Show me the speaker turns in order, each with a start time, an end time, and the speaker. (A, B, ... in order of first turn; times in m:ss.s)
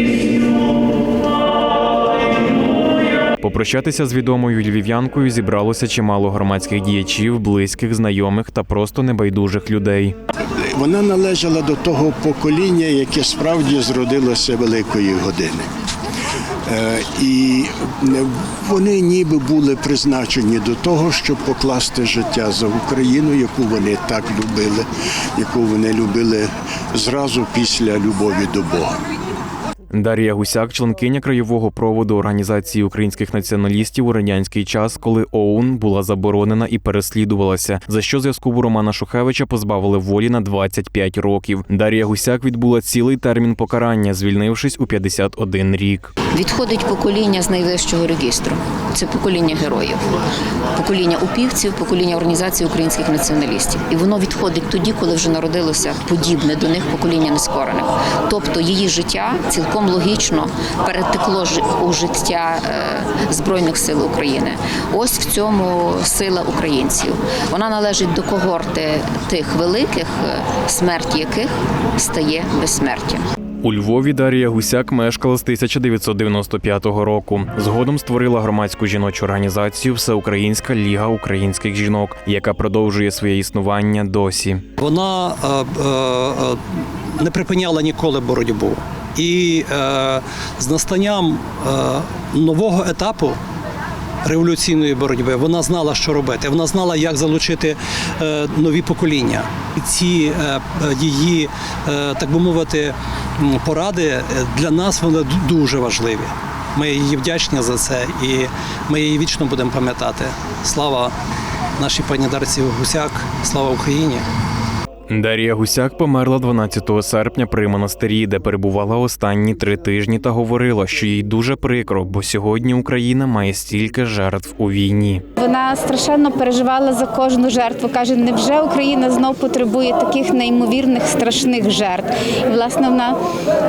0:03.4-0:10.2 A
0:10.7-0:15.7 B
0:16.7-0:29.0 B
0:29.9-0:46.1 A
0:46.3-0:50.1 C
0:50.7-1:13.2 C
1:13.6-1:24.6 A
1:24.8-1:26.6 D
1:27.2-1:33.4 D
1:34.2-1:51.1 D
1:51.8-1:54.2 D
1:55.1-2:05.2 A
2:05.4-2:13.2 E